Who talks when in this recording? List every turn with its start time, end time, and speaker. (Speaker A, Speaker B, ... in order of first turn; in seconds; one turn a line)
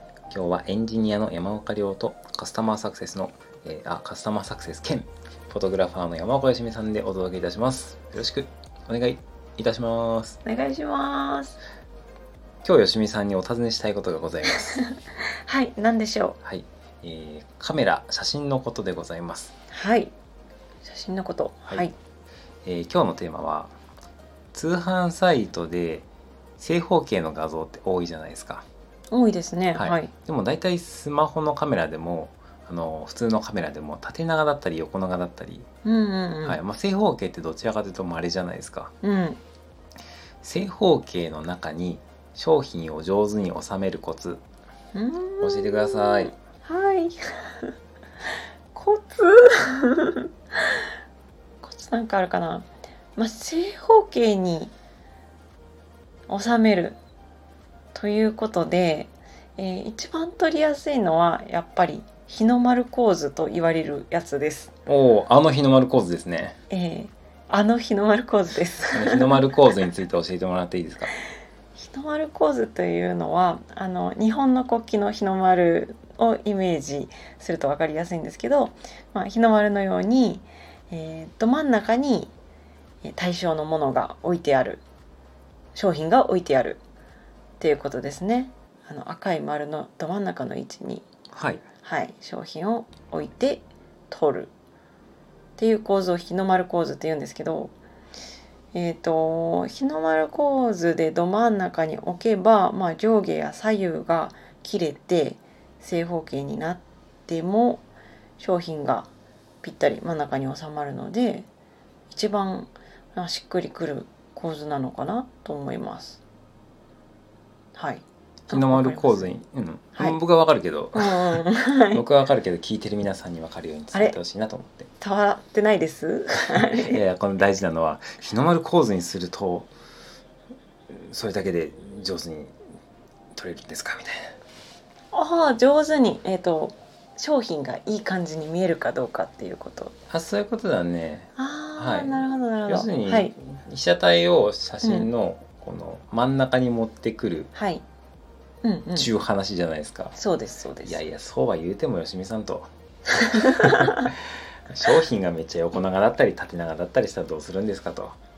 Speaker A: 0.3-10.4
Speaker B: 10.4-11.6
Speaker A: 12.6-14.8
Speaker B: 15.4-16.4
Speaker A: 16.4-19.5
Speaker B: 19.7-20.1
Speaker B: 20.8-21.9
Speaker A: 22.6-23.7
Speaker A: 24.5-26.1
Speaker A: 26.6-28.6
Speaker B: 29.1-30.1
Speaker A: 29.7-35.7
Speaker B: 35.8-36.6
Speaker A: 36.4-38.9
Speaker B: 39.0-39.4
Speaker A: 40.4-44.4
Speaker B: 44.9-47.7
Speaker A: 45.4-46.3
Speaker B: 48.7-50.8
Speaker B: 51.6-54.7
Speaker B: 56.3-57.0
Speaker B: 57.9-64.7
Speaker A: 64.8-66.6
Speaker B: 66.7-69.4
Speaker A: 68.9-71.1
Speaker B: 71.7-82.3
Speaker B: 83.0-84.8
Speaker B: 85.7-86.8
Speaker B: 87.6-91.0
Speaker A: 91.3-91.6
Speaker B: 91.8-94.5
Speaker B: 95.6-97.7
Speaker B: 98.7-107.8
Speaker B: 108.4-109.1
Speaker B: 109.6-111.5
Speaker B: 112.1-116.2
Speaker B: 117.7-119.3
Speaker A: 118.5-124.9
Speaker B: 120.9-122.0
Speaker B: 123.9-124.2
Speaker B: 125.0-127.0
Speaker A: 126.7-129.7
Speaker A: 130.9-132.6
Speaker A: 133.3-134.3
Speaker B: 135.1-139.9
Speaker A: 140.1-147.5
Speaker B: 141.3-143.3
Speaker B: 144.8-145.1
Speaker B: 147.5-147.8
Speaker B: 148.6-149.1
Speaker A: 148.9-150.1
Speaker B: 150.1-151.0
Speaker A: 150.8-158.2
Speaker B: 153.7-154.0